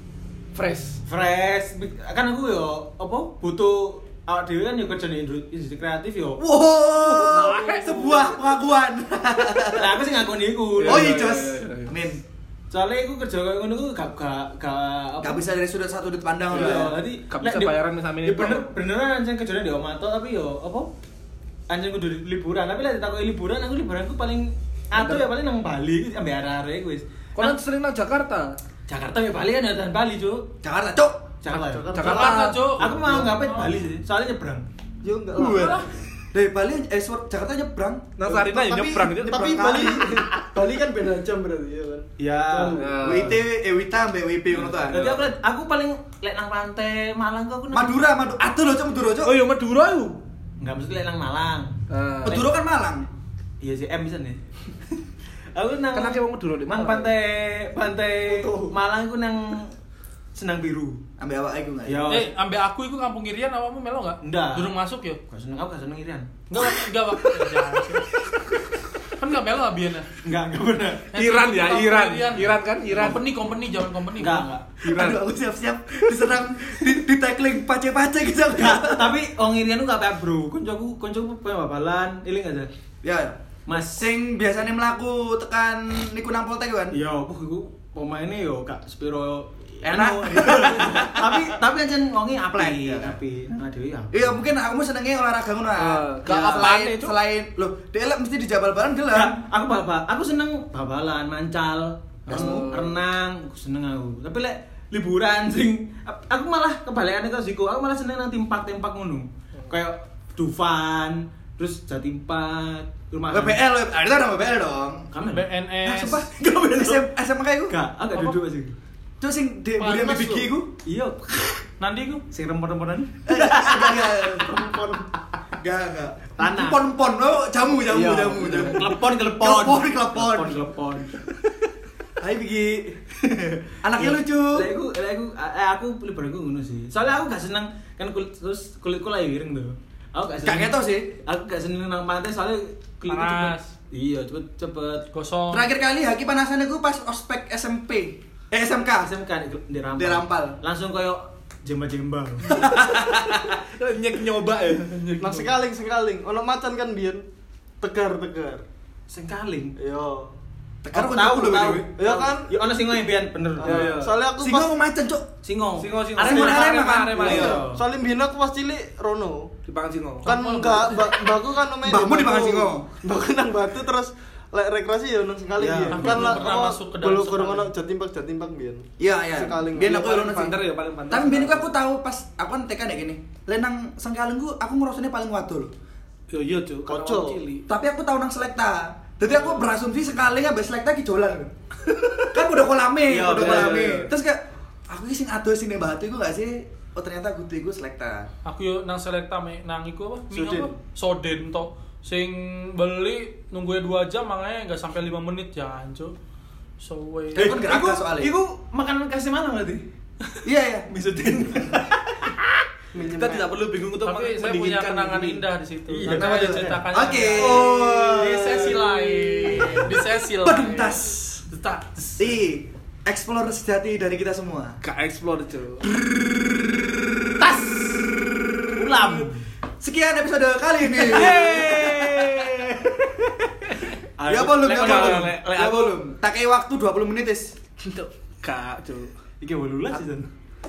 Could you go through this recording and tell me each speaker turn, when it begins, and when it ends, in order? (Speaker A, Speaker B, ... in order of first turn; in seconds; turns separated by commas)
Speaker A: 0.5-1.0, Speaker B: 1.1-6.4, Speaker C: 6.4-10.0, Speaker A: 7.0-8.3, Speaker B: 9.7-11.2, Speaker A: 10.8-11.9, Speaker C: 10.8-12.2, Speaker B: 12.7-15.4, Speaker C: 15.2-16.9, Speaker B: 16.5-20.9, Speaker A: 16.5-18.8, Speaker B: 21.7-27.0, Speaker A: 24.9-25.3, Speaker A: 27.3-28.5, Speaker B: 28.9-30.5, Speaker C: 30.6-31.2, Speaker B: 31.4-34.6, Speaker D: 31.5-32.4, Speaker A: 31.9-32.6, Speaker E: 32.0-33.8, Speaker D: 35.0-35.9, Speaker E: 35.4-35.9, Speaker C: 36.3-40.1, Speaker A: 38.2-40.0, Speaker D: 38.8-43.0, Speaker B: 42.2-43.3, Speaker A: 42.7-43.4, Speaker C: 43.0-45.0, Speaker B: 44.6-48.0, Speaker A: 44.9-45.3, Speaker C: 47.7-49.4, Speaker A: 49.2-50.2, Speaker B: 50.6-52.5, Speaker A: 51.9-52.4, Speaker C: 52.2-53.1, Speaker B: 53.6-54.4, Speaker B: 55.5-59.7, Speaker A: 55.9-57.1, Speaker B: 60.3-61.0, Speaker C: 61.2-62.0, Speaker B: 61.9-62.3, Speaker E: 62.1-65.2, Speaker B: 64.2-64.7, Speaker B: 65.3-66.7, Speaker E: 66.5-68.1, Speaker E: 69.0-70.1, Speaker B: 70.2-71.1, Speaker E: 71.1-74.6, Speaker A: 71.1-73.2, Speaker B: 72.9-73.2, Speaker B: 74.2-74.8, Speaker A: 74.8-75.2, Speaker C: 74.8-79.2, Speaker B: 78.5-82.7, Speaker C: 83.0-87.0, Speaker B: 83.7-84.0, Speaker B: 86.9-94.3, Speaker C: 89.8-91.5, Speaker C: 92.5-93.2, Speaker C: 94.1-99.4, Speaker A: 95.8-97.1, Speaker B: 99.1-113.6, Speaker C: 102.3-102.8, Speaker A: 102.3-103.0, Speaker C: 113.3-115.1, Speaker B: 115.1-115.5, Speaker E: 115.2-116.2, Speaker C: 115.8-117.8, Speaker B: 116.3-117.1, Speaker B: 117.7-118.7, Speaker C: 119.2-120.7, Speaker E: 119.8-120.5, Speaker B: 120.8-121.6, Speaker E: 121.8-122.2, Speaker B: 122.3-125.3, Speaker C: 123.3-124.5, Speaker C: 125.6-130.6, Speaker B: 126.4-126.8, Speaker B: 127.8-131.2, Speaker C: 132.2-133.0, Speaker B: 133.2-145.1, Speaker C: 133.8-134.7, Speaker C: 140.4-141.2, Speaker E: 143.0-143.7, Speaker E: 145.1-145.7, Speaker C: 145.5-149.1, Speaker B: 149.0-152.5, Speaker C: 149.9-150.6, Speaker C: 152.5-153.6, Speaker A: 152.9-155.5, Speaker D: 155.2-157.2, Speaker D: 157.8-158.6, Speaker B: 159.1-159.8, Speaker D: 159.8-160.3, Speaker C: 160.8-161.9, Speaker B: 160.9-163.9, Speaker D: 161.9-162.5, Speaker D: 163.6-164.7, Speaker A: 163.6-164.2, Speaker C: 164.3-165.3, Speaker B: 165.4-167.8, Speaker A: 165.8-167.6, Speaker C: 166.2-167.6, Speaker D: 167.2-169.5, Speaker A: 169.7-170.2, Speaker E: 170.2-171.2, Speaker D: 170.2-180.0, Speaker C: 171.8-172.8, Speaker B: 175.6-176.5, Speaker E: 175.9-177.7, Speaker C: 179.0-180.6, Speaker A: 179.9-181.7, Speaker C: 181.1-185.7, Speaker A: 186.3-187.6, Speaker D: 186.9-187.4, Speaker C: 187.7-191.5, Speaker C: 192.3-198.3, Speaker B: 193.1-193.9, Speaker A: 193.3-194.1, Speaker E: 198.4-206.1, Speaker B: 200.3-200.7, Speaker E: 206.8-207.5, Speaker B: 207.3-209.8, Speaker C: 207.3-208.3, Speaker C: 210.4-210.9, Speaker B: 210.9-212.5, Speaker D: 212.9-213.5, Speaker A: 213.1-215.4, Speaker E: 214.0-222.3, Speaker D: 215.9-216.8, Speaker C: 216.0-218.6, Speaker B: 217.4-219.7, Speaker C: 220.3-221.4, Speaker C: 222.2-224.8, Speaker A: 224.8-225.8, Speaker C: 225.9-227.3, Speaker B: 227.4-229.4, Speaker C: 229.8-231.9, Speaker A: 231.0-232.9, Speaker B: 231.1-232.7, Speaker A: 233.7-233.9, Speaker B: 234.2-235.7, Speaker C: 234.3-237.5, Speaker A: 234.7-236.0, Speaker A: 238.4-239.1, Speaker B: 239.4-240.3